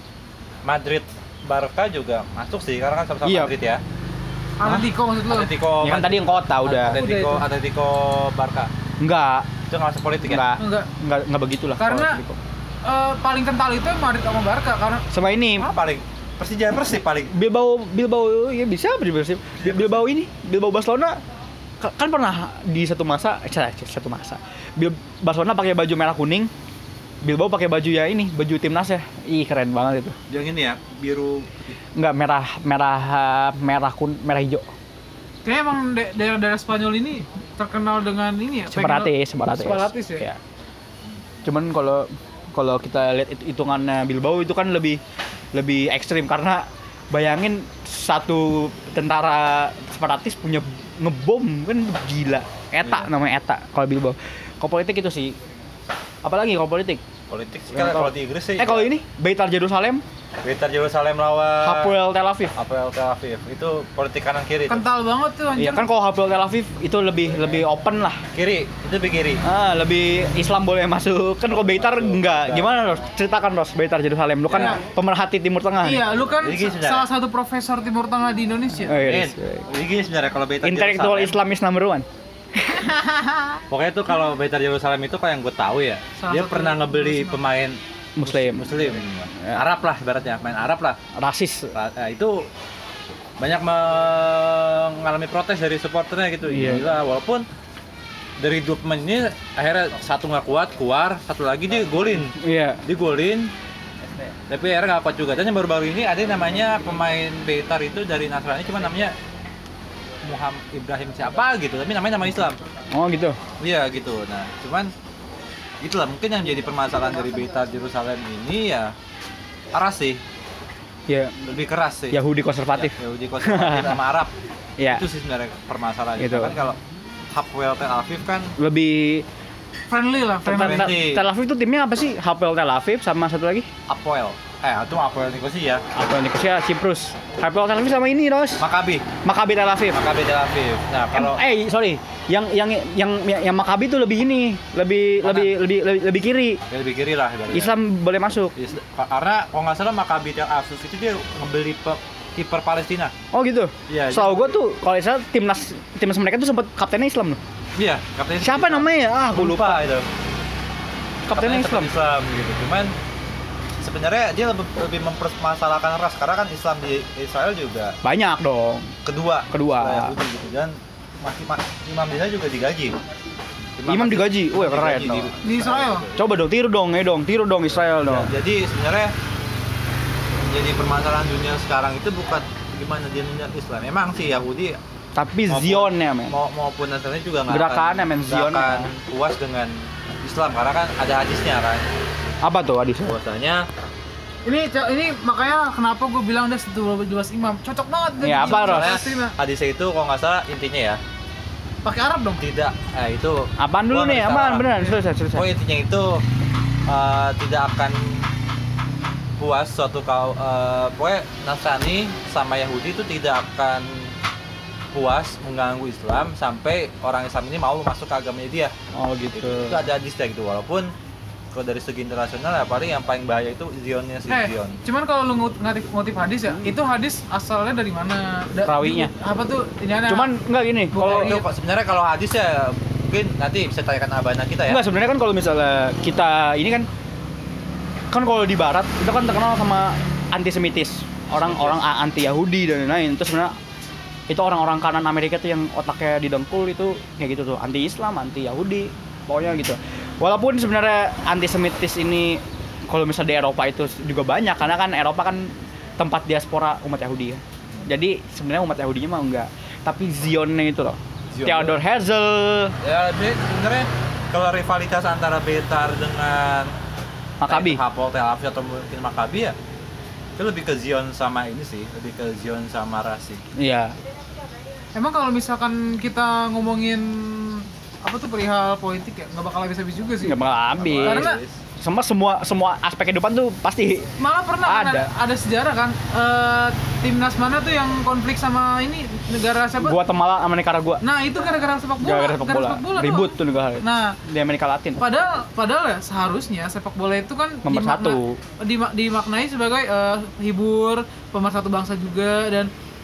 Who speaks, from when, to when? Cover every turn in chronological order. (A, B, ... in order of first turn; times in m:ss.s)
0:00.6-0:03.8 A
0:03.2-0:03.5 B
0:04.6-0:05.5 C
0:05.3-0:08.7 A
0:05.8-0:07.0 B
0:06.9-0:07.4 C
0:09.0-0:09.5 B
0:09.7-0:10.4 A
0:10.2-0:12.4 B
0:10.6-0:10.9 C
0:11.8-0:12.2 C
0:12.8-0:15.0 C
0:15.1-0:15.7 B
0:15.6-0:17.3 A
0:17.3-0:21.2 B
0:19.6-0:20.0 A
0:21.8-0:26.5 B
0:27.2-0:30.2 B
0:30.3-0:31.6 A
0:32.0-0:34.7 B
0:35.4-0:40.2 C
0:38.7-0:40.4 B
0:41.4-0:45.0 B
0:45.5-0:55.4 B
0:56.2-0:57.0 B
0:57.3-0:58.9 A
0:57.7-1:00.0 B
1:00.4-1:02.0 A
1:01.6-1:02.6 B
1:02.6-1:04.9 A
1:04.7-1:05.9 C
1:05.5-1:08.2 B
1:08.3-1:09.4 A
1:09.4-1:16.0 B
1:11.5-1:12.8 A
1:14.5-1:14.8 A
1:14.5-1:14.8 C
1:15.8-1:19.0 C
1:16.3-1:17.0 A
1:18.8-1:19.7 B
1:19.0-1:21.4 A
1:20.6-1:22.0 B
1:23.7-1:31.0 A
1:26.2-1:27.4 C
1:28.2-1:28.8 B
1:31.2-1:31.7 B
1:31.7-1:32.4 A
1:33.4-1:37.4 A
1:36.5-1:36.9 B
1:38.4-1:43.5 A
1:42.4-1:42.8 B
1:44.3-1:49.1 A
1:50.2-1:52.6 A
1:52.9-1:53.4 B
1:53.6-1:54.9 A
1:55.8-1:58.9 A
1:59.7-2:00.2 A
2:01.1-2:01.3 B
2:01.4-2:02.2 A
2:02.1-2:04.0 B
2:02.7-2:04.3 A
2:04.8-2:05.0 B
2:04.9-2:06.8 A
2:06.2-2:06.6 B
2:07.3-2:08.5 A
2:08.6-2:09.2 B
2:09.9-2:11.0 C
2:10.4-2:13.7 B
2:10.6-2:11.2 A
2:13.9-2:15.8 A
2:15.9-2:18.6 B
2:18.6-2:19.1 A
2:19.2-2:20.0 B
2:19.9-2:21.4 A
2:21.1-2:26.6 B
2:25.2-2:25.6 A
2:26.7-2:27.7 A
2:27.5-2:28.5 B
2:28.6-2:33.1 A
2:33.3-2:37.4 B
2:33.9-2:34.6 A
2:37.8-2:40.1 A
2:38.4-2:39.8 B
2:41.3-2:41.9 B
2:41.3-2:42.9 A
2:43.8-2:48.0 A
2:48.0-2:49.0 B
2:49.0-2:53.0 A
2:49.5-2:50.2 B
2:53.8-2:56.2 A
2:53.9-2:55.3 B
2:55.4-2:56.1 C
2:56.2-2:58.3 B
2:57.7-2:59.1 A
3:00.4-3:04.8 A
3:05.1-3:06.3 B
3:05.5-3:11.9 A
3:07.5-3:08.9 B
3:12.4-3:13.1 B
3:13.0-3:13.6 A
3:14.4-3:19.3 C
3:18.2-3:19.0 B
3:18.4-3:21.0 A
3:21.8-3:22.4 C
3:22.4-3:26.2 A
3:23.6-3:25.4 B
3:26.9-3:28.3 A
3:29.4-3:34.1 A
3:34.9-3:38.7 A
3:38.9-3:39.8 B
3:39.3-3:40.9 A
3:41.5-3:44.8 A
3:44.3-3:50.3 C
3:48.6-3:49.1 B
3:50.1-3:51.3 B
3:50.9-3:51.4 C
3:51.0-3:54.8 A
3:54.7-3:56.9 B
3:58.1-4:03.5 B
4:01.3-4:01.8 A
4:04.3-4:22.7 B
4:21.3-4:21.8 A
4:22.8-4:26.7 A
4:27.4-4:27.8 B
4:27.5-4:29.6 A
4:30.4-4:33.4 A
4:33.5-4:34.0 B
4:34.9-4:40.4 C
4:40.2-4:41.3 B
4:40.7-4:41.6 A
4:41.0-4:41.4 C
4:41.8-4:44.1 B
4:44.2-4:50.0 C
4:44.6-4:45.1 B
4:49.8-4:51.0 B
4:51.0-4:54.2 C
4:52.0-4:55.0 B
4:55.0-5:02.7 C
4:57.6-4:58.4 B